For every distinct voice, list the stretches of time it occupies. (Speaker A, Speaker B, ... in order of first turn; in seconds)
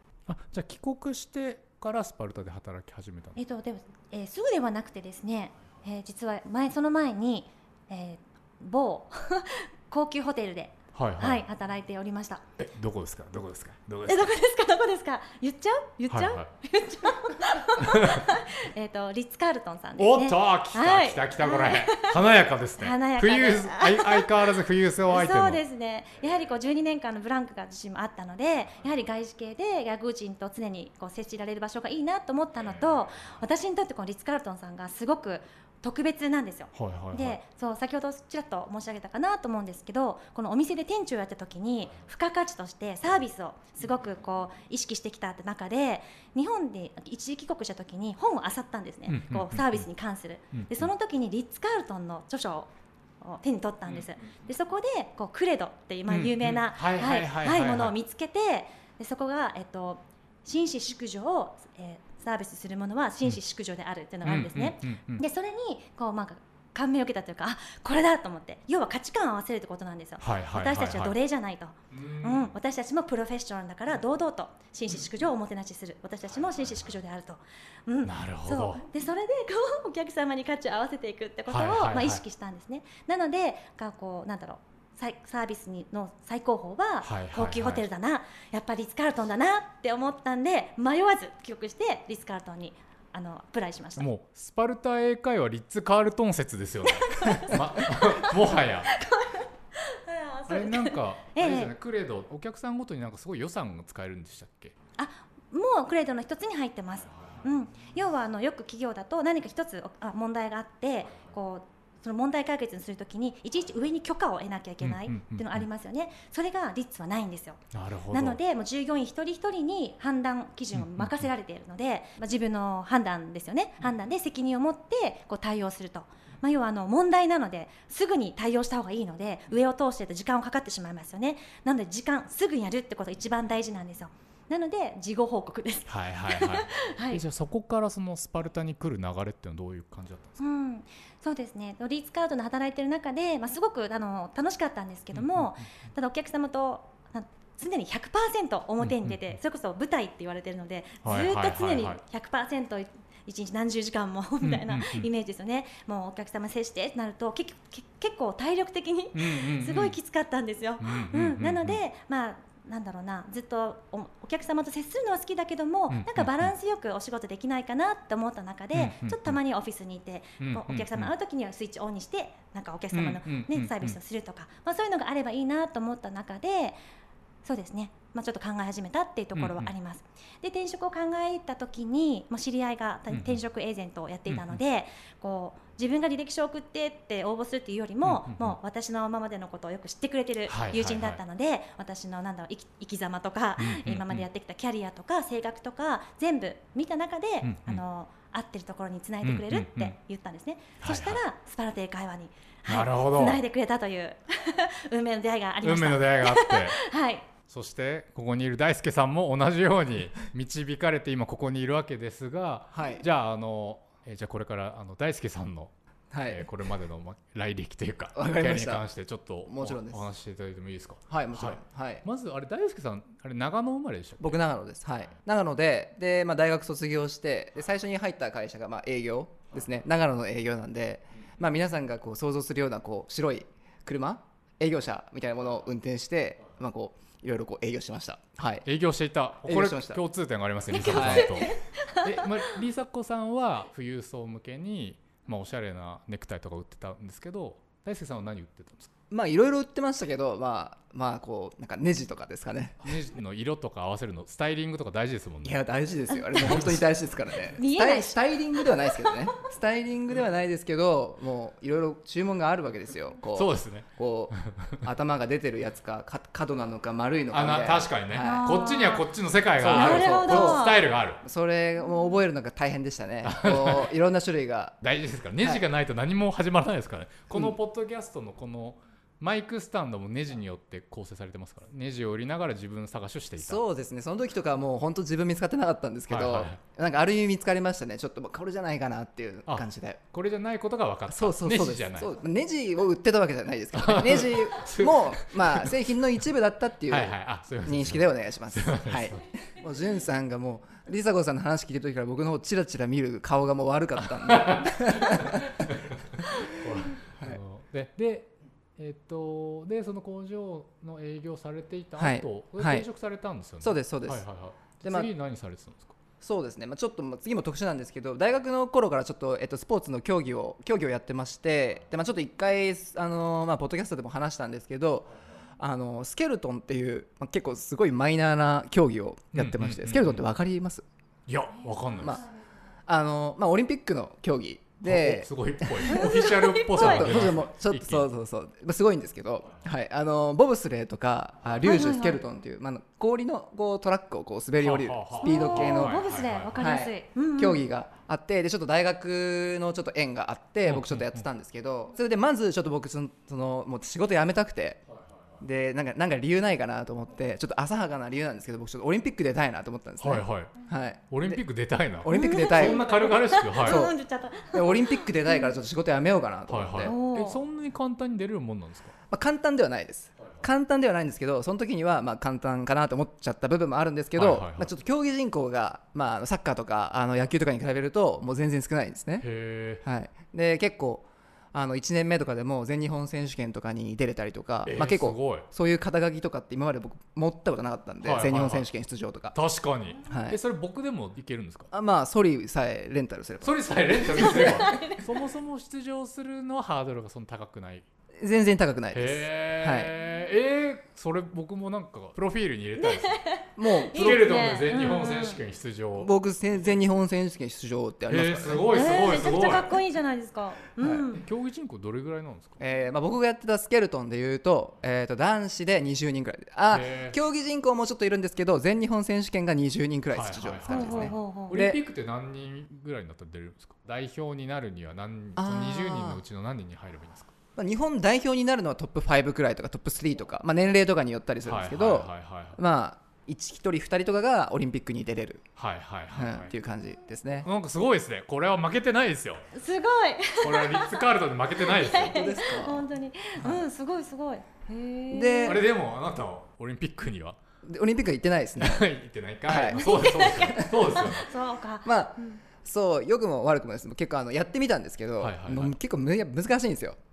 Speaker A: 0.3-3.4, 10.9-11.4, 12.6-14.3, 16.1-16.5, 17.8-18.3, 20.0-25.6, 32.7-33.3, 36.7-37.4, 49.1-49.9, 50.5-50.9, 53.9-54.3, 56.1-57.9, 64.2-65.2, 70.2-71.2, 71.9-72.5, 76.5-76.9, 78.0-78.8, 81.5-82.2, 87.0-87.9, 94.0-98.9, 100.5-104.7, 107.0-107.5, 114.8-115.7, 117.7-118.4, 120.7-121.3, 135.9-140.4, 145.1-145.6, 148.8-149.3, 151.0-152.0, 154.4-155.1, 159.1-160.0, 160.8-161.8, 165.9-166.5, 168.7-169.4, 170.4-171.1, 172.9-174.0, 179.3-179.7, 183.1-183.4, 184.3-184.6, 188.0-188.6, 190.5-191.2, 193.6-194.3, 197.4-197.8, 199.2-199.9, 200.8-201.2, 202.7-203.4, 205.6-206.8, 207.5-215.7, 216.3-224.4, 238.7-248.9, 252.8-255.6, 256.4-256.9, 263.3-264.8, 267.3-271.2, 273.2-273.9, 274.8-283.6, 286.1-286.6, 289.5-292.1, 293.7-295.8, 296.9-299.3, 304.1-316.0, 329.4-330.2, 331.3-332.2, 334.8-338.1, 344.6-346.6, 350.7-351.2, 360.0-360.6, 361.1-363.9, 366.5-368.9, 374.1-374.7, 379.2-379.8, 384.7-385.5, 388.0-388.7, 389.3-391.7, 393.4-397.9, 398.9-403.2, 403.9-406.1, 408.1-409.8, 411.2-412.6, 416.7-417.2, 420.1-427.3, 431.4-432.6, 435.6-436.5, 437.4-439.5, 440.4-442.2, 445.4-447.4, 448.6-451.3, 455.2-455.7
Speaker B: 3.4-12.4, 14.1-22.2, 22.8-24.3, 25.1-94.1, 96.9-101.7, 105.0-137.2, 140.4-176.8, 177.4-207.3, 240.7-242.3, 256.1-256.4, 257.6-259.1, 268.2-269.1, 269.7-270.8, 335.9-337.3, 341.6-342.2, 345.2-347.6, 362.1-365.5, 366.8-367.4, 394.2-395.0, 402.8-405.4, 408.7-411.2, 420.7-421.6, 439.5-441.0, 441.6-445.6, 449.8-452.4
Speaker C: 212.7-213.1, 216.1-216.5, 218.2-218.8, 219.5-220.1, 221.1-222.1, 224.2-238.7, 239.4-240.0, 240.8-241.4, 249.1-252.9, 255.4-268.5, 269.6-274.8, 283.4-290.0, 291.1-305.7, 312.0-312.9, 313.6-314.3, 314.8-315.1, 316.2-330.9, 332.0-332.2, 332.9-336.1, 336.7-346.0, 346.6-354.8, 355.4-361.4, 362.0-362.9, 363.6-363.9, 364.5-367.0, 369.1-379.3, 379.8-389.4, 390.1-390.4, 391.7-394.6, 398.2-399.9, 403.6-404.6, 406.0-408.9, 410.8-411.1, 412.6-421.8, 425.4-426.2, 427.6-435.5, 436.1-437.5, 442.0-442.9, 443.4-443.6, 445.1-445.6, 447.6-448.9, 449.4-451.1, 451.9-457.0